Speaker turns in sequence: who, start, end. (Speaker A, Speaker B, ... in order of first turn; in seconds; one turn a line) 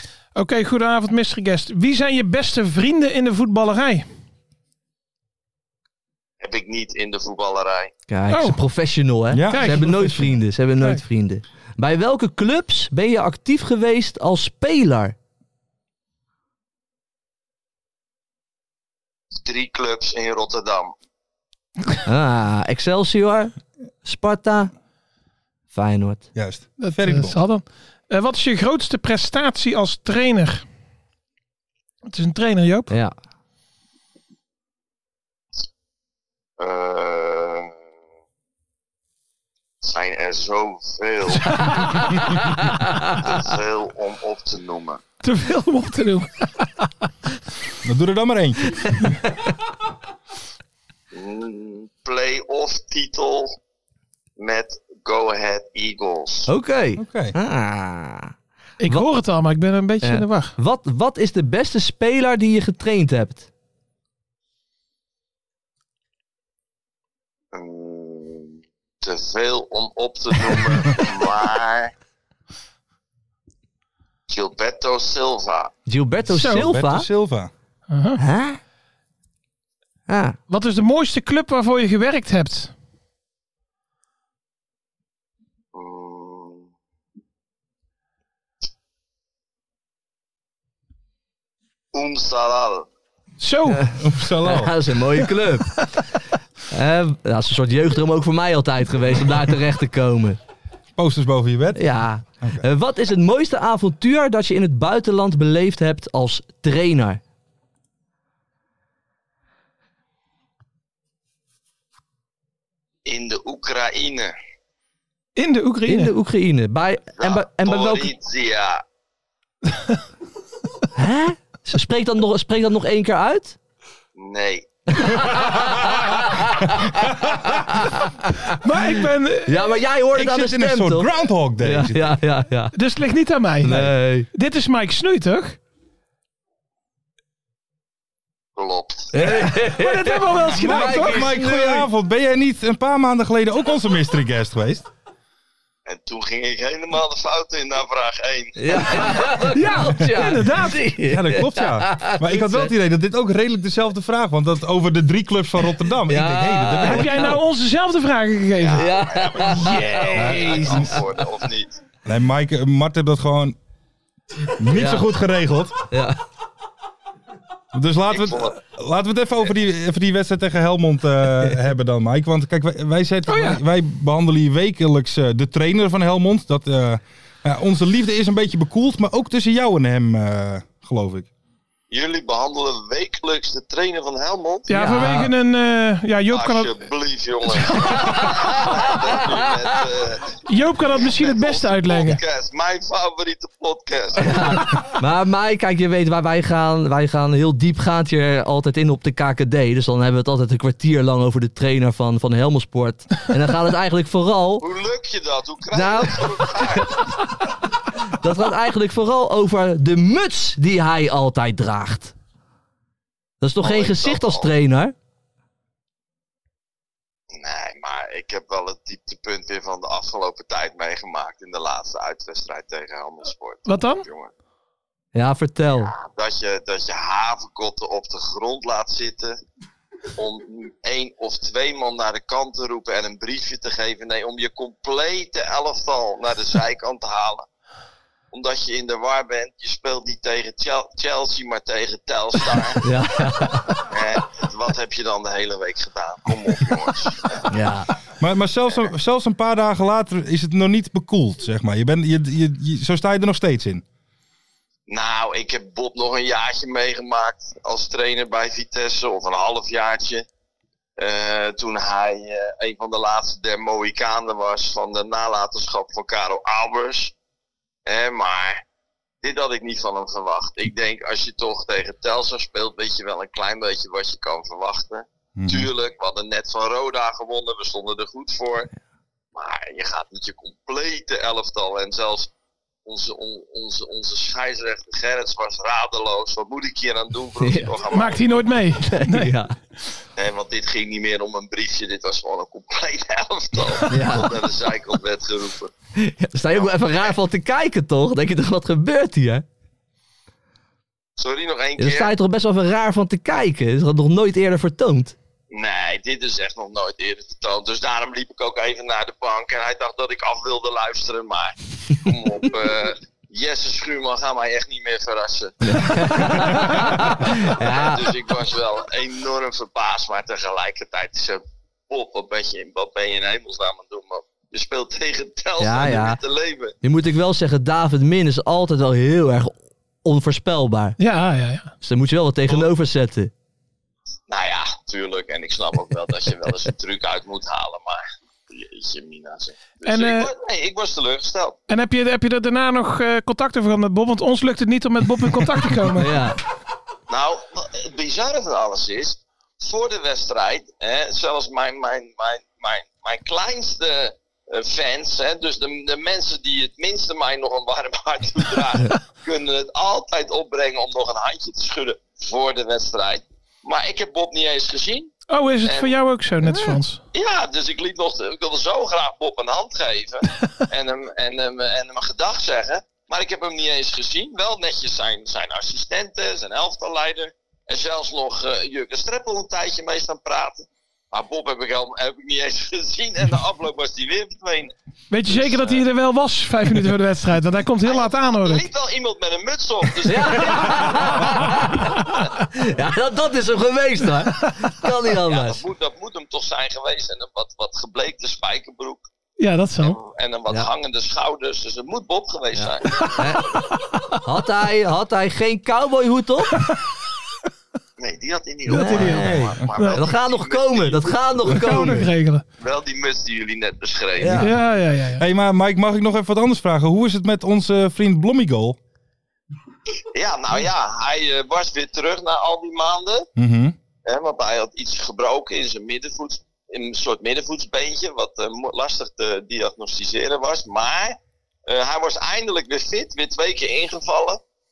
Speaker A: 0.3-4.0
Speaker B: 6.4-7.9
Speaker C: 8.1-15.1
Speaker A: 8.3-8.6
Speaker D: 9.3-9.9
Speaker A: 9.5-10.3
Speaker B: 19.4-20.9
Speaker C: 22.0-23.5
Speaker C: 24.0-24.7
Speaker C: 25.7-26.3
Speaker D: 26.3-27.4
Speaker A: 26.8-30.6
Speaker A: 32.1-32.9
Speaker C: 32.9-33.1
Speaker B: 36.6-37.7
Speaker B: 39.8-41.6
Speaker A: 41.5-42.0
Speaker B: 43.1-45.0
Speaker A: 45.2-46.9
Speaker D: 47.8-49.1
Speaker B: 51.1-53.5
Speaker B: 54.4-56.5
Speaker C: 56.5-58.3
Speaker D: 57.0-57.3
Speaker A: 58.8-60.5
Speaker C: 60.0-63.5
Speaker B: 67.5-71.9
Speaker B: 74.3-75.7
Speaker C: 75.9-77.1
Speaker A: 76.3-76.6
Speaker D: 76.3-77.5
Speaker A: 77.9-78.2
Speaker C: 78.2-78.6
Speaker C: 80.1-80.4
Speaker A: 80.5-82.7
Speaker B: 85.7-86.7
Speaker B: 91.9-92.8
Speaker A: 93.4-93.8
Speaker C: 93.7-95.9
Speaker D: 94.0-94.7
Speaker C: 96.7-100.4
Speaker D: 101.0-102.6
Speaker C: 101.7-107.2
Speaker B: 113.0-114.3
Speaker A: 115.3-116.1
Speaker C: 115.9-118.1
Speaker B: 117.2-118.8
Speaker C: 120.9-123.6
Speaker B: 124.2-124.7
Speaker C: 125.0-128.6
Speaker A: 128.6-129.7
Speaker C: 129.4-132.7
Speaker D: 130.1-132.1
Speaker A: 132.7-135.6
Speaker C: 133.6-134.3
Speaker B: 138.6-139.2
Speaker C: 139.1-141.8
Speaker A: 139.5-141.5
Speaker D: 140.6-144.9
Speaker B: 145.8-149.3
Speaker C: 148.6-152.7
Speaker A: 149.6-150.8
Speaker D: 151.0-157.4
Speaker C: 156.1-157.4
Speaker A: 156.8-160.6
Speaker B: 158.6-161.8
Speaker C: 158.7-161.0
Speaker D: 160.1-160.9
Speaker D: 162.0-163.6
Speaker D: 164.6-165.9
Speaker C: 164.7-165.1
Speaker C: 165.9-166.2
Speaker D: 167.7-181.3
Speaker B: 168.1-168.6
Speaker A: 173.3-173.6
Speaker B: 181.9-184.7
Speaker A: 184.7-186.7
Speaker C: 184.7-185.3
Speaker B: 186.3-190.4
Speaker A: 187.5-188.5
Speaker C: 188.0-189.8
Speaker A: 190.5-192.2
Speaker B: 190.9-194.6
Speaker C: 194.2-204.7
Speaker B: 204.6-207.0
Speaker C: 205.7-206.9
Speaker C: 208.1-212.1
Speaker C: 213.4-214.9
Speaker B: 213.6-214.5
Speaker B: 217.3-224.3
Speaker A: 223.7-224.0
Speaker C: 225.1-225.9
Speaker B: 225.8-229.4
Speaker B: 230.1-237.5
Speaker B: 238.3-242.8
Speaker C: 242.8-243.8
Speaker B: 243.8-247.4
Speaker C: 247.5-247.9
Speaker D: 248.2-253.8
Speaker B: 254.9-260.2
Speaker B: 261.0-267.1
Speaker B: 267.9-268.6
Speaker B: 269.2-278.7
Speaker D: 275.4-275.7
Speaker B: 279.3-282.3
Speaker B: 282.8-288.6
Speaker C: 287.4-287.7
Speaker A: 287.9-289.3
Speaker C: 288.8-289.5
Speaker B: 290.2-295.7
Speaker C: 293.9-294.3
Speaker C: 296.0-299.4
Speaker B: 296.5-297.1
Speaker B: 301.2-302.1
Speaker C: 301.8-305.1
Speaker B: 305.5-326.7
Speaker C: 315.6-318.2
Speaker C: 325.6-326.2
Speaker C: 326.8-331.0
Speaker A: 331.0-331.7
Speaker C: 331.8-333.3
Speaker B: 334.3-341.6
Speaker A: 339.8-340.3
Speaker A: 341.7-346.2
Speaker C: 345.9-346.4
Speaker B: 347.1-365.1
Speaker A: 365.3-367.0
Speaker B: 365.6-366.0
Speaker B: 367.1-384.7
Speaker A: 385.1-388.7
Speaker B: 385.2-385.8
Speaker B: 387.8-391.2
Speaker C: 390.1-395.6
Speaker B: 395.2-399.1
Speaker A: 399.4-400.0
Speaker B: 399.8-403.2
Speaker C: 402.5-403.6
Speaker C: 404.1-406.6
Speaker B: 408.0-411.3
Speaker A: 408.7-410.0
Speaker C: 408.7-412.1
Speaker D: 409.2-409.7
Speaker A: 411.5-412.4
Speaker B: 412.6-414.4
Speaker C: 414.2-414.5
Speaker A: 414.4-415.2
Speaker D: 415.2-418.8
Speaker B: 420.1-423.3
Speaker D: 423.4-423.8
Speaker B: 424.0-434.4